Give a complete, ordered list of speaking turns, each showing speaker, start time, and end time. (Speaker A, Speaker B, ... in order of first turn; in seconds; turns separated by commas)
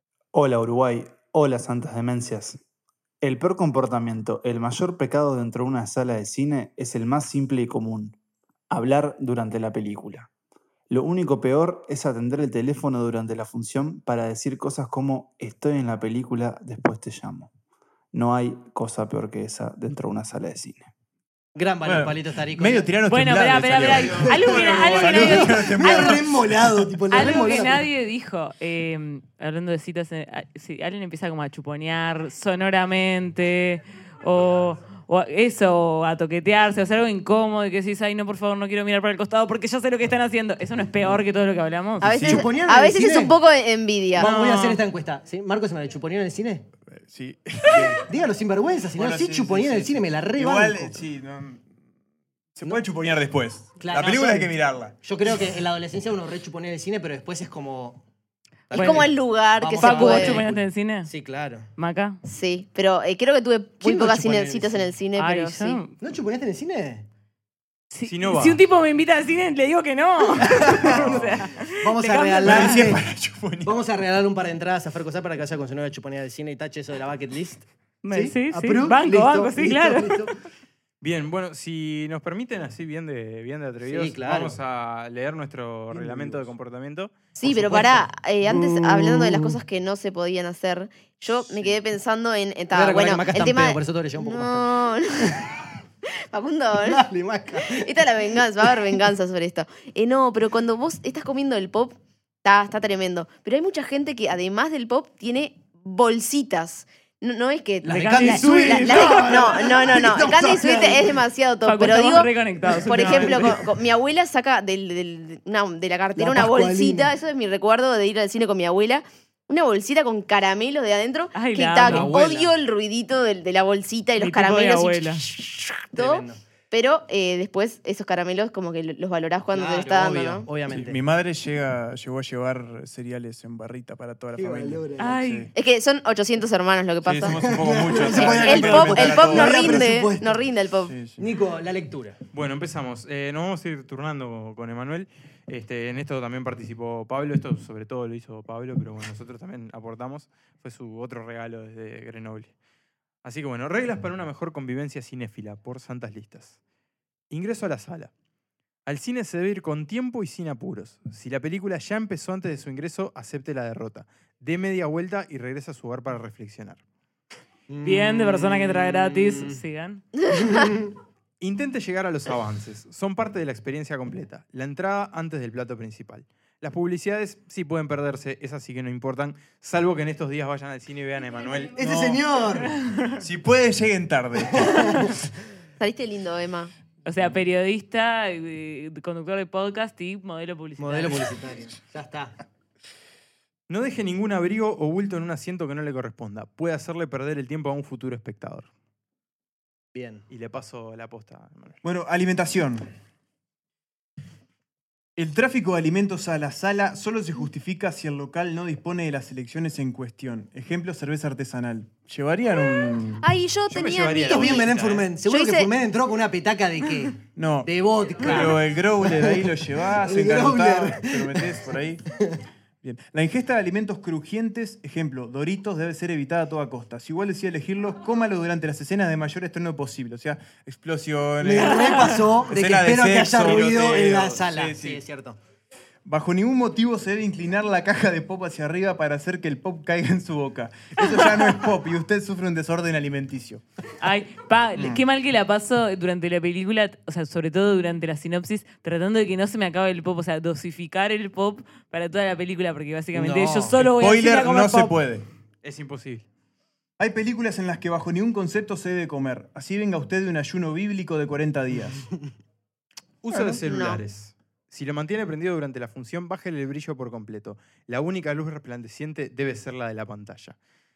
Speaker A: 0.3-2.6, Speaker A: 3.2-8.2, Speaker A: 8.7-10.3, Speaker A: 10.9-17.5, Speaker A: 18.1-20.9, Speaker B: 21.6-22.9, Speaker C: 21.8-27.0, Speaker D: 23.1-26.1, Speaker E: 23.8-25.6, Speaker B: 24.6-27.9, Speaker D: 27.1-42.1, Speaker F: 42.0-44.3, Speaker B: 42.2-43.4, Speaker C: 42.2-42.4, Speaker B: 44.2-46.7, Speaker E: 44.2-44.8, Speaker C: 46.9-48.0, Speaker B: 48.0-51.0, Speaker C: 49.0-51.6, Speaker C: 52.5-55.0, Speaker B: 53.8-58.0, Speaker B: 58.7-61.7, Speaker D: 58.7-59.1, Speaker F: 58.7-60.4, Speaker D: 59.8-61.1, Speaker D: 61.8-62.2, Speaker F: 62.2-65.8, Speaker B: 63.8-64.9, Speaker D: 65.2-65.9, Speaker B: 66.0-67.1, Speaker D: 67.9-72.8, Speaker E: 68.0-68.6, Speaker B: 70.4-73.0, Speaker C: 72.4-73.7, Speaker B: 73.6-80.4, Speaker D: 78.0-80.3, Speaker E: 81.0-87.1, Speaker B: 83.8-84.6, Speaker B: 85.9-86.5, Speaker F: 87.4-95.4, Speaker B: 87.4-89.6, Speaker B: 92.7-95.6, Speaker F: 96.3-97.0, Speaker B: 96.8-98.0, Speaker F: 97.6-112.3, Speaker B: 107.8-111.2, Speaker D: 107.9-109.6, Speaker D: 111.6-113.6, Speaker B: 112.7-113.6, Speaker F: 112.9-130.5, Speaker B: 116.2-117.1, Speaker D: 121.3-122.1, Speaker B: 121.8-122.5, Speaker D: 124.2-125.2, Speaker B: 126.0-126.4, Speaker B: 129.5-131.0, Speaker C: 130.7-135.5, Speaker B: 134.3-135.1, Speaker D: 135.0-135.5, Speaker F: 135.5-141.0, Speaker C: 137.0-140.1, Speaker B: 137.2-140.4, Speaker C: 140.8-141.2, Speaker B: 141.2-142.2, Speaker E: 142.3-152.5, Speaker E: 153.2-156.6, Speaker E: 157.3-158.1, Speaker E: 158.9-166.8, Speaker B: 167.7-169.6, Speaker D: 167.8-170.1, Speaker B: 170.3-170.9, Speaker E: 171.4-182.1, Speaker B: 181.8-182.7, Speaker C: 181.8-182.2, Speaker D: 182.8-183.1, Speaker C: 183.2-185.1, Speaker B: 184.5-185.2, Speaker F: 185.8-186.7, Speaker D: 187.1-191.3, Speaker B: 190.8-192.3, Speaker E: 193.7-198.7, Speaker B: 199.9-200.2, Speaker E: 200.3-201.8, Speaker C: 201.8-202.9, Speaker C: 205.2-213.3, Speaker F: 213.2-214.7, Speaker E: 213.7-215.1, Speaker B: 214.2-221.5, Speaker F: 215.3-215.7, Speaker C: 217.4-222.0, Speaker C: 222.8-235.0, Speaker B: 231.4-235.4, Speaker D: 231.8-232.2, Speaker E: 233.5-234.3, Speaker C: 236.1-243.6, Speaker D: 244.0-255.0, Speaker C: 244.8-245.0, Speaker B: 253.1-253.8, Speaker C: 253.8-255.3, Speaker E: 255.6-256.3, Speaker C: 257.0-262.1, Speaker E: 263.2-270.6, Speaker F: 263.5-264.0